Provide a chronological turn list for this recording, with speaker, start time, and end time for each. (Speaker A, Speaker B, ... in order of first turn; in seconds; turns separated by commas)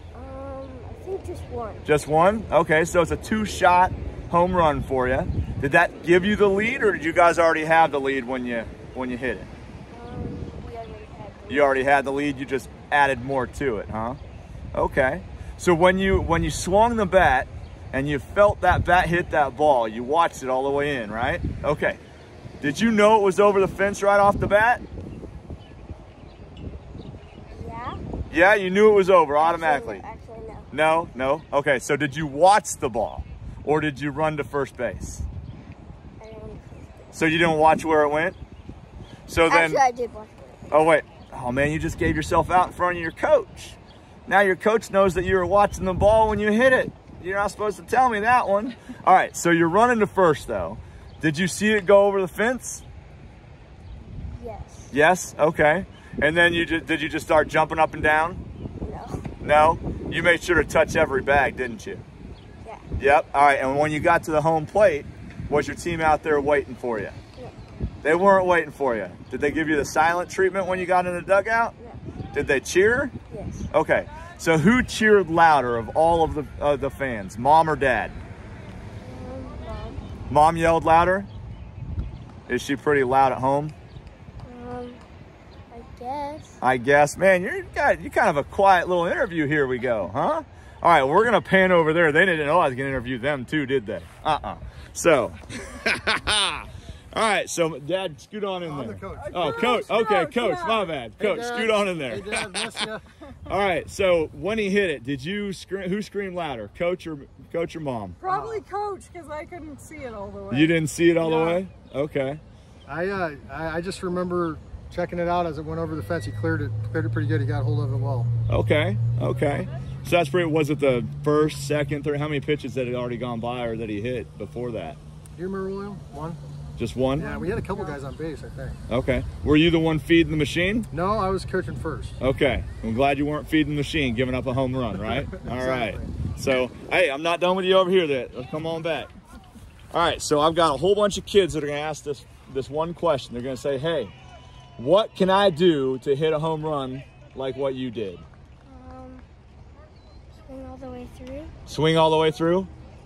Speaker A: 0.1-1.8, Speaker B: 1.8-9.5, Speaker A: 9.9-11.9, Speaker B: 11.5-14.2, Speaker B: 14.7-22.0, Speaker B: 22.6-24.8, Speaker A: 27.5-28.0, Speaker B: 28.3-30.0, Speaker A: 29.4-30.7, Speaker B: 30.7-35.2, Speaker A: 36.2-37.2, Speaker B: 37.1-38.4, Speaker B: 39.3-39.8, Speaker A: 39.5-40.7, Speaker B: 40.7-52.8, Speaker A: 54.2-54.9, Speaker B: 54.9-58.4, Speaker A: 58.8-59.2, Speaker B: 59.4-62.0, Speaker B: 63.0-67.1, Speaker B: 68.0-71.7, Speaker B: 72.3-73.1, Speaker A: 73.3-73.7, Speaker B: 73.7-78.2, Speaker A: 79.0-80.0, Speaker B: 80.3-81.3, Speaker B: 82.5-83.7, Speaker A: 84.4-85.0, Speaker A: 85.7-86.6, Speaker B: 86.6-102.9, Speaker C: 98.6-99.7, Speaker D: 99.2-100.9, Speaker C: 101.2-103.0, Speaker B: 103.5-108.2, Speaker D: 108.2-110.7, Speaker C: 108.3-108.6, Speaker B: 110.5-112.4, Speaker C: 111.2-111.6, Speaker C: 112.8-118.3, Speaker B: 118.5-125.0, Speaker C: 125.3-126.4, Speaker B: 126.8-127.3, Speaker C: 127.2-128.8, Speaker D: 127.2-127.9, Speaker B: 128.9-130.9, Speaker C: 130.9-132.2, Speaker B: 132.2-139.1, Speaker C: 135.2-136.1, Speaker B: 139.9-144.1, Speaker B: 144.8-148.2, Speaker A: 148.7-149.2, Speaker A: 150.5-151.5, Speaker B: 151.7-152.7